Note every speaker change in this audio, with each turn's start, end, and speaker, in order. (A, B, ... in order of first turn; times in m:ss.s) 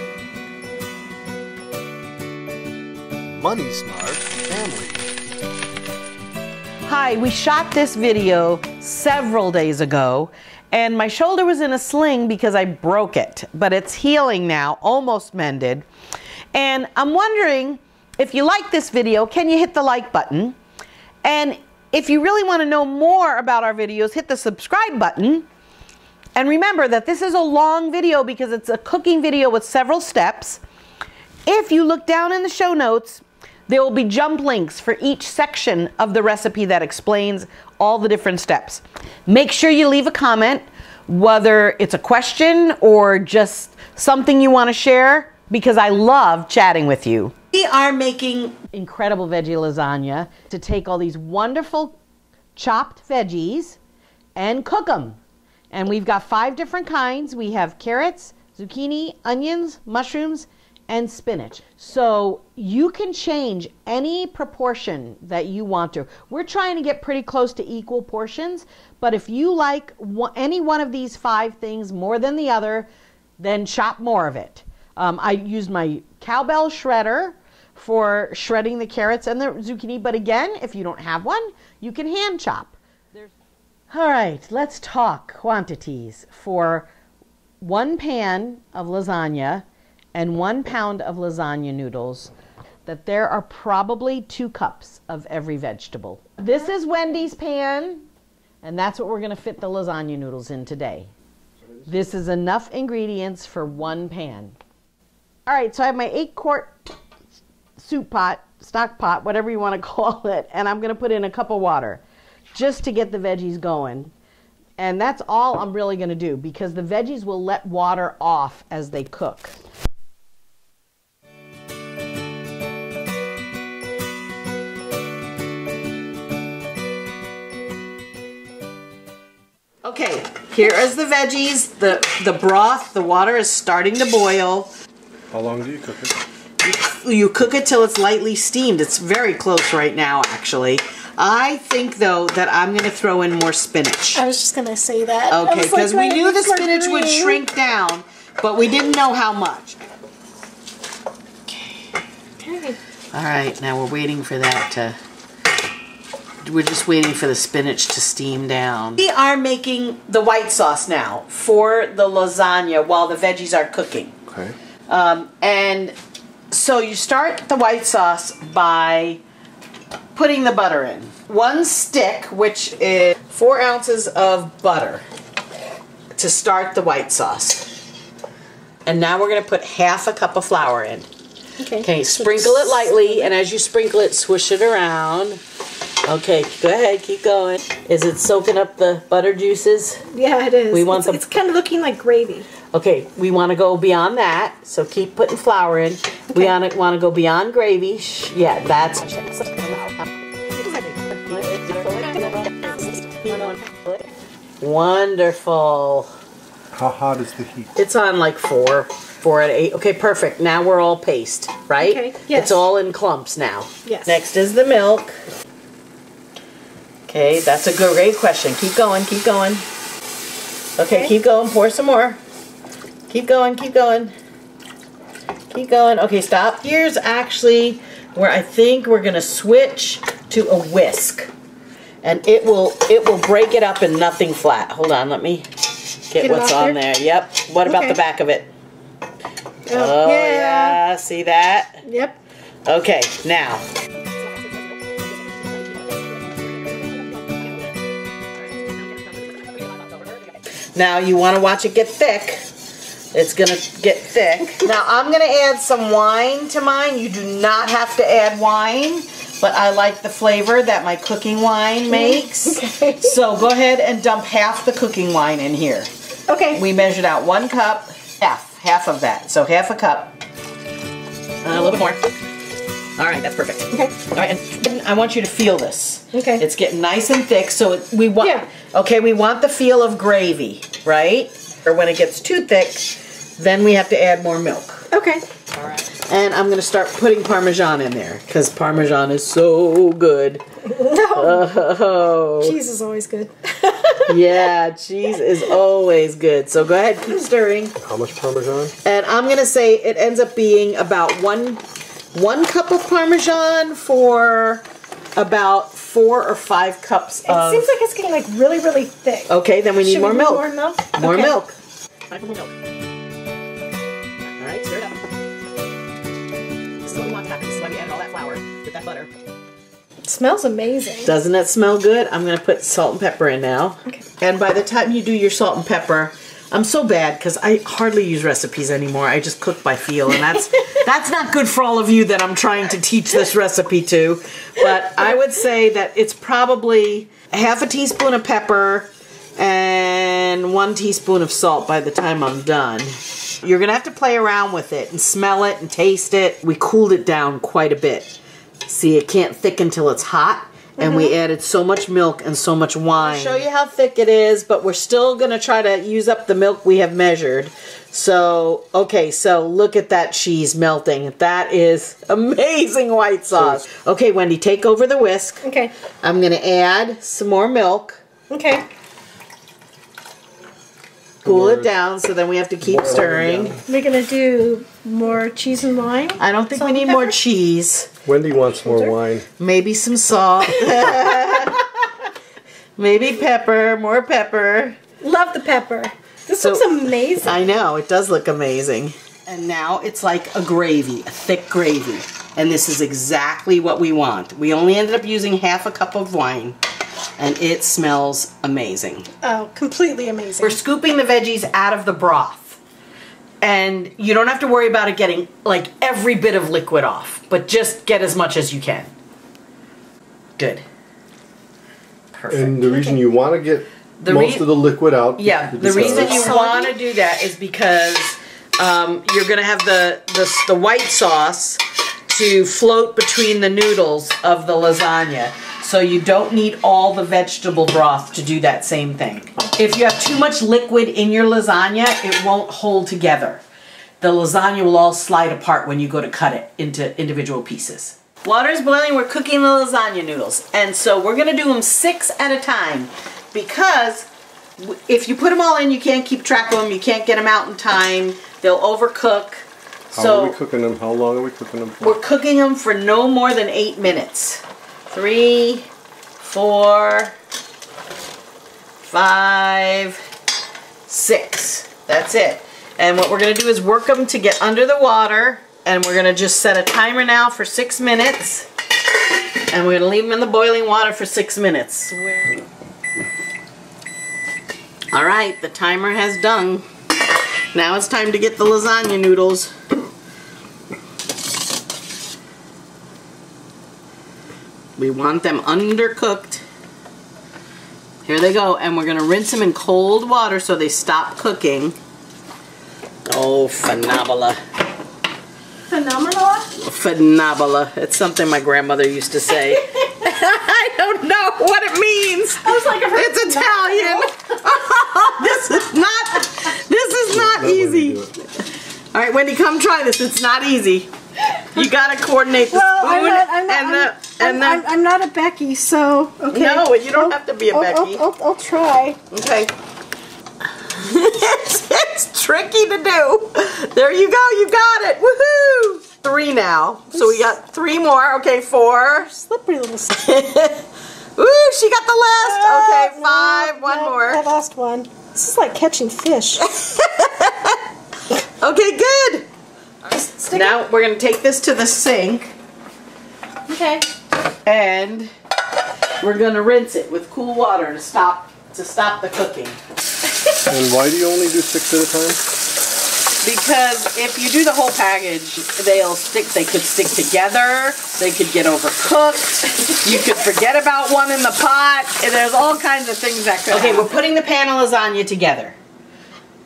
0:03.4-0:05.0 A
0:06.9-0:15.8 B
0:16.5-0:20.6 B
0:21.2-0:25.4 B
0:26.4-0:30.6 B
0:31.4-0:52.0 B
0:52.6-0:53.8 B
0:54.4-0:55.2 B
0:55.7-1:23.3 B
1:23.9-1:26.9 B
1:27.6-1:32.3 B
1:32.8-1:38.0 B
1:38.6-1:41.1 B
1:41.8-1:44.6 B
1:45.5-1:46.7 B
1:47.8-1:52.0 B
1:52.5-1:54.1 B
1:54.8-1:59.6 B
2:09.8-2:14.7 B
2:15.3-2:16.2 A
2:16.6-2:24.2 B
2:24.1-2:27.4 C
2:25.3-2:29.8 B
2:32.4-2:32.8 C
2:33.1-2:35.0 B
2:36.4-2:44.1 B
2:44.3-2:44.5 A
2:44.9-2:45.9 B
2:46.5-2:49.2 B
2:50.1-2:55.0 B
2:56.1-2:57.7 B
2:58.8-3:01.1 B
3:01.6-3:03.3 C
3:01.8-3:05.4 B
3:06.0-3:10.0 B
3:10.1-3:12.5 C
3:10.7-3:11.2 B
3:12.7-3:20.1 B
3:20.7-3:23.9 B
3:22.0-3:23.8 C
3:24.6-3:26.1 B
3:26.7-3:27.7 A
3:27.8-3:35.1 B
3:31.8-3:32.6 C
3:33.8-3:34.2 C
3:37.1-3:39.6 B
3:40.8-3:42.2 B
3:43.1-3:44.1 B
3:45.5-3:51.3 B
3:52.0-3:55.5 B
3:56.1-3:58.5 B
3:56.2-3:56.8 C
3:57.6-3:58.0 C
3:59.7-4:00.8 C
3:59.7-4:01.8 B
4:01.8-4:02.2 C
4:02.6-4:03.6 B
4:10.7-4:12.5 B
4:13.1-4:25.9 B
4:21.9-4:23.1 C
4:26.3-4:26.6 C
4:26.5-4:30.2 B
4:31.4-4:32.1 B
4:33.0-4:44.9 B
4:36.1-4:36.4 C
4:38.2-4:38.4 C
4:44.9-4:45.2 C
4:45.5-4:50.4 B
4:50.7-4:51.4 C
4:51.1-4:52.6 B
4:52.4-4:54.3 C
4:54.1-4:57.7 B
4:57.8-4:58.7 A
4:58.8-5:01.6 B
5:02.1-5:04.6 B
5:05.2-5:07.8 B
5:07.2-5:11.3 C
5:09.3-5:11.5 B
5:12.1-5:12.5 B
5:14.4-5:15.0 B
5:16.8-5:19.1 B
5:20.0-5:21.1 C
5:21.0-6:05.4 B
5:50.8-5:51.1 C
6:05.4-6:05.7 C
6:06.0-6:08.0 B
6:08.3-6:08.6 C
6:11.2-6:11.7 A
6:11.2-6:13.6 B
6:12.6-6:13.6 A
6:13.7-6:17.1 C
6:16.2-6:17.9 B
6:18.0-6:19.2 A
6:18.5-6:18.9 C
6:19.4-6:21.6 B
6:20.5-6:21.6 C
6:22.8-6:24.8 B
6:25.0-6:27.5 C
6:26.3-6:36.6 B
6:37.2-6:39.1 B
6:39.2-6:40.6 C
6:40.4-6:42.6 B
6:43.4-6:48.9 B
6:50.4-6:50.6 B
6:52.1-6:52.6 B
6:52.3-6:56.4 A
6:52.6-6:53.0 C
6:54.0-6:54.5 B
6:55.2-7:13.4 B
6:55.7-6:56.7 C
7:14.0-7:30.4 B
7:29.9-7:32.0 A
7:31.8-7:35.7 B
7:36.2-7:37.1 B
7:38.8-7:40.0 B
7:40.9-7:48.5 B
7:49.5-7:52.3 B
7:54.9-7:56.6 B
7:57.5-7:59.5 B
8:04.8-8:06.4 B
8:08.0-8:11.8 B
8:13.0-8:14.4 B
8:15.7-8:16.5 C
8:16.5-8:34.6 B
8:22.4-8:24.1 C
8:27.1-8:28.1 A
8:32.5-8:39.0 C
8:36.3-8:38.0 B
8:39.1-8:39.5 B
8:40.6-8:49.1 B
8:46.9-8:47.3 C
8:48.9-8:50.1 C
8:49.9-8:54.2 B
8:52.2-8:56.5 C
8:56.4-8:57.6 B
8:58.1-8:59.3 B
8:59.8-9:00.5 C
9:00.3-9:02.3 B
9:03.5-9:03.9 C
9:04.4-9:05.1 B
9:06.0-9:09.6 B
9:10.4-9:12.2 A
9:13.2-9:25.6 B